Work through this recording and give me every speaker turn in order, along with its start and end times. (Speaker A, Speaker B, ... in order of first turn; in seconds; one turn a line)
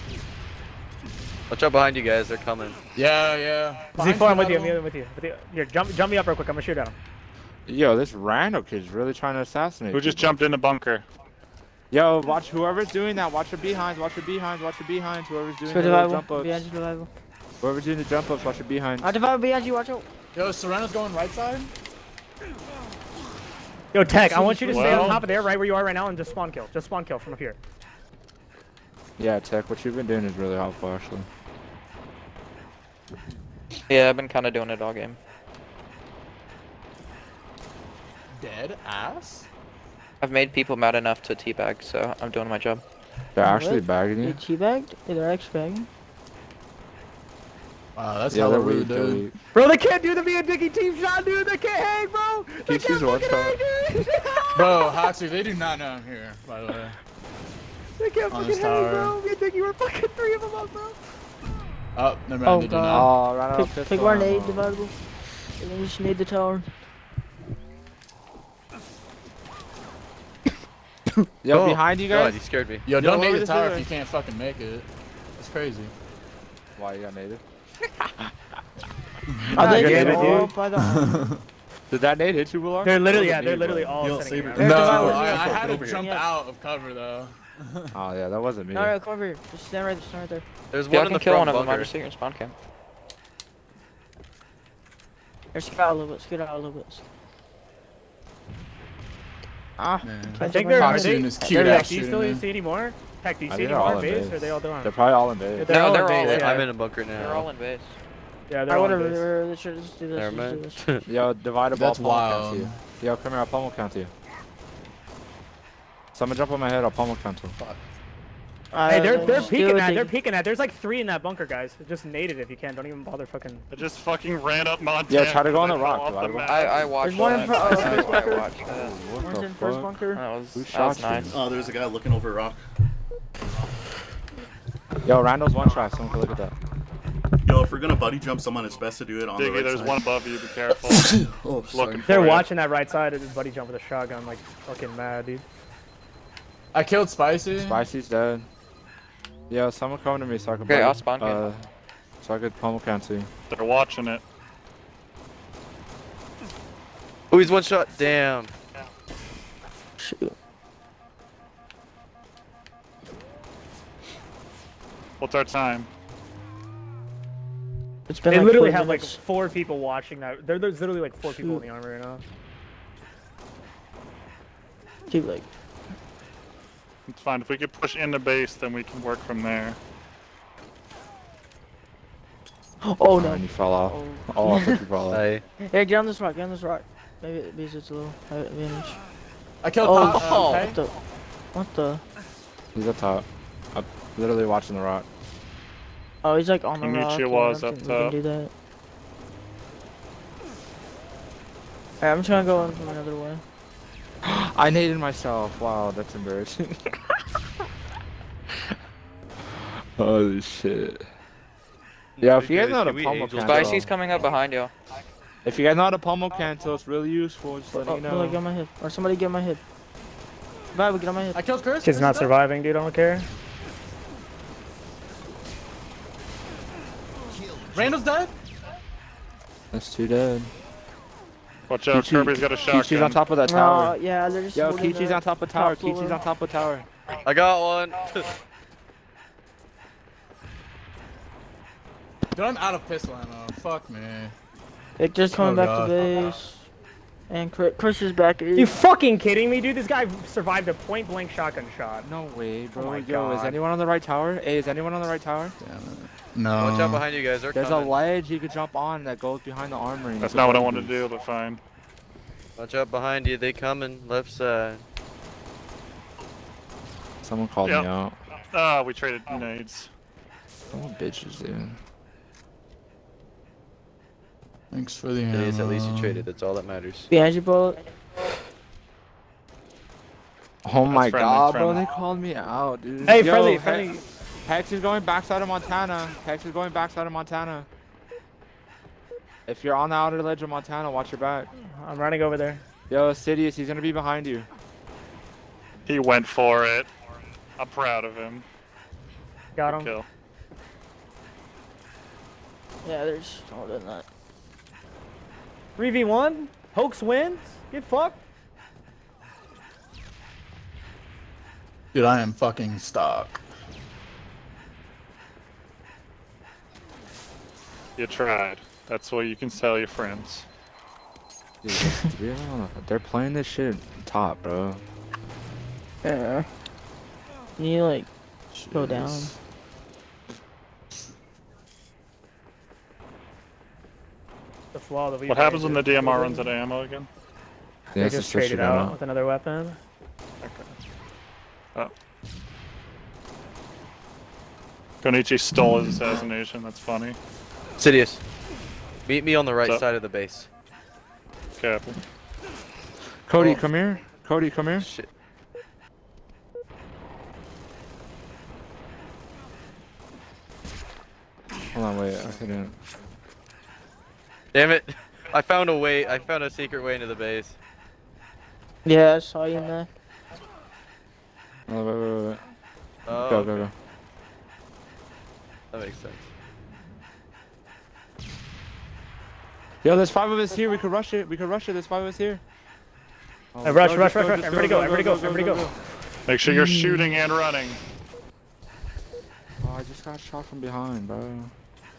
Speaker A: 1.5-2.8
Speaker B: 3.0-4.0
Speaker C: 4.0-7.0
Speaker D: 4.0-4.8
Speaker E: 7.7-10.3
Speaker F: 9.9-11.1
Speaker E: 11.9-16.7
Speaker D: 15.7-17.1
Speaker E: 17.6-19.1
Speaker D: 19.0-20.1
Speaker B: 20.4-21.7
Speaker C: 23.9-27.6
Speaker D: 24.2-25.2
Speaker F: 24.7-25.2
Speaker E: 29.2-31.3
Speaker G: 33.9-35.2
Speaker B: 38.4-39.5
Speaker G: 40.2-42.8
Speaker E: 43.4-44.4
Speaker D: 43.4-45.9
Speaker B: 48.0-49.3
Speaker E: 48.3-49.3
Speaker C: 49.5-54.9
Speaker E: 52.6-53.6
Speaker B: 54.5-57.0
Speaker C: 58.0-61.0
Speaker B: 58.3-59.2
Speaker B: 62.0-63.1
Speaker D: 62.5-64.9
Speaker E: 62.9-64.8
Speaker D: 65.6-66.7
Speaker E: 71.4-72.4
Speaker A: 71.5-73.0
Speaker B: 72.9-75.9
Speaker E: 73.0-73.9
Speaker E: 76.8-77.4
Speaker B: 79.3-80.2
Speaker D: 79.5-81.2
Speaker E: 79.5-80.5
Speaker C: 79.6-80.5
Speaker B: 80.8-81.4
Speaker E: 81.9-84.0
Speaker C: 82.8-85.4
Speaker H: 83.1-86.1
Speaker B: 84.6-88.0
Speaker D: 84.7-86.3
Speaker E: 87.9-89.0
Speaker D: 88.7-90.5
Speaker A: 90.7-91.9
Speaker G: 90.9-92.5
Speaker D: 95.5-97.0
Speaker D: 99.8-101.8
Speaker B: 100.0-102.5
Speaker C: 100.5-104.9
Speaker E: 103.5-105.8
Speaker C: 105.6-106.7
Speaker G: 105.7-107.9
Speaker A: 106.2-107.5
Speaker C: 108.5-109.2
Speaker D: 108.7-110.8
Speaker A: 110.1-111.1
Speaker E: 111.1-114.1
Speaker B: 111.7-112.8
Speaker E: 116.1-117.6
Speaker D: 118.7-120.1
Speaker C: 118.9-123.7
Speaker F: 123.7-128.0
Speaker E: 125.1-126.9
Speaker G: 126.5-128.9
Speaker D: 127.0-128.5
Speaker E: 128.6-130.0
Speaker D: 129.2-130.2
Speaker G: 130.2-131.4
Speaker E: 130.5-131.4
Speaker H: 131.3-132.6
Speaker E: 135.1-136.6
Speaker H: 137.4-140.2
Speaker F: 139.4-141.2
Speaker H: 140.8-142.4
Speaker F: 141.7-142.5
Speaker C: 142.1-145.4
Speaker B: 146.7-147.8
Speaker E: 147.6-148.5
Speaker E: 149.5-151.7
Speaker G: 150.7-151.4
Speaker E: 152.2-153.3
Speaker F: 153.5-154.2
Speaker A: 157.3-158.5
Speaker D: 160.0-160.3
Speaker F: 165.2-165.9
Speaker D: 168.1-169.2
Speaker C: 168.3-172.2
Speaker D: 175.1-175.5
Speaker F: 177.1-179.8
Speaker D: 182.8-184.8
Speaker E: 183.2-185.2
Speaker A: 185.1-185.4
Speaker D: 185.6-189.0
Speaker B: 189.6-190.7
Speaker D: 189.8-190.9
Speaker C: 190.1-190.7
Speaker A: 190.2-190.8
Speaker D: 191.5-192.0
Speaker E: 192.8-195.1
Speaker D: 196.2-198.5
Speaker F: 196.8-198.2
Speaker D: 202.0-203.4
Speaker E: 202.3-202.8
Speaker E: 204.2-207.2
Speaker E: 209.8-211.1
Speaker A: 212.2-213.8
Speaker E: 212.2-213.9
Speaker G: 213.4-214.7
Speaker E: 215.4-218.4
Speaker D: 217.7-219.6
Speaker D: 220.7-221.4
Speaker B: 221.3-222.3
Speaker C: 221.8-223.3
Speaker B: 227.7-228.3
Speaker E: 229.7-230.5
Speaker F: 231.7-233.2
Speaker E: 231.9-234.0
Speaker D: 233.4-236.2
Speaker E: 234.5-236.9
Speaker A: 237.2-238.4
Speaker B: 242.3-244.3
Speaker D: 245.0-246.7
Speaker B: 245.3-246.3
Speaker D: 247.3-248.8
Speaker C: 248.6-252.1
Speaker E: 252.0-255.6
Speaker A: 252.8-253.6
Speaker B: 255.6-257.1
Speaker A: 256.6-257.9
Speaker E: 257.5-261.0
Speaker F: 260.2-261.6
Speaker A: 262.6-264.8
Speaker E: 267.2-268.2
Speaker F: 267.6-267.9
Speaker F: 268.5-269.9
Speaker E: 270.7-271.8
Speaker B: 274.7-276.2
Speaker A: 275.3-277.1
Speaker D: 277.1-277.9
Speaker E: 280.6-287.7
Speaker F: 280.9-281.8
Speaker C: 283.1-284.0
Speaker E: 289.5-291.5
Speaker C: 291.6-292.6
Speaker E: 292.9-294.5
Speaker F: 295.9-296.9
Speaker F: 297.6-298.4
Speaker C: 299.6-299.9
Speaker F: 299.7-300.1
Speaker D: 302.8-304.1
Speaker C: 305.8-308.2
Speaker B: 311.9-313.4
Speaker F: 318.0-320.5
Speaker E: 321.6-324.8
Speaker D: 326.0-326.5
Speaker D: 327.6-328.1
Speaker B: 328.5-329.4
Speaker D: 328.7-329.3
Speaker C: 334.7-336.5
Speaker F: 335.3-337.1
Speaker E: 337.9-338.9
Speaker C: 338.0-339.8
Speaker F: 340.4-340.7
Speaker F: 345.0-347.2
Speaker A: 347.8-348.2
Speaker A: 349.1-350.5
Speaker F: 351.6-352.0
Speaker E: 353.3-354.9
Speaker A: 353.4-353.6
Speaker A: 354.8-355.1
Speaker E: 361.7-362.8
Speaker A: 364.5-367.6
Speaker D: 368.9-369.9
Speaker E: 371.7-372.4
Speaker A: 373.1-373.7
Speaker E: 373.1-373.7
Speaker A: 375.7-376.3
Speaker E: 379.8-382.4
Speaker E: 383.5-385.8
Speaker C: 383.6-385.6
Speaker F: 386.3-387.8
Speaker E: 389.6-391.5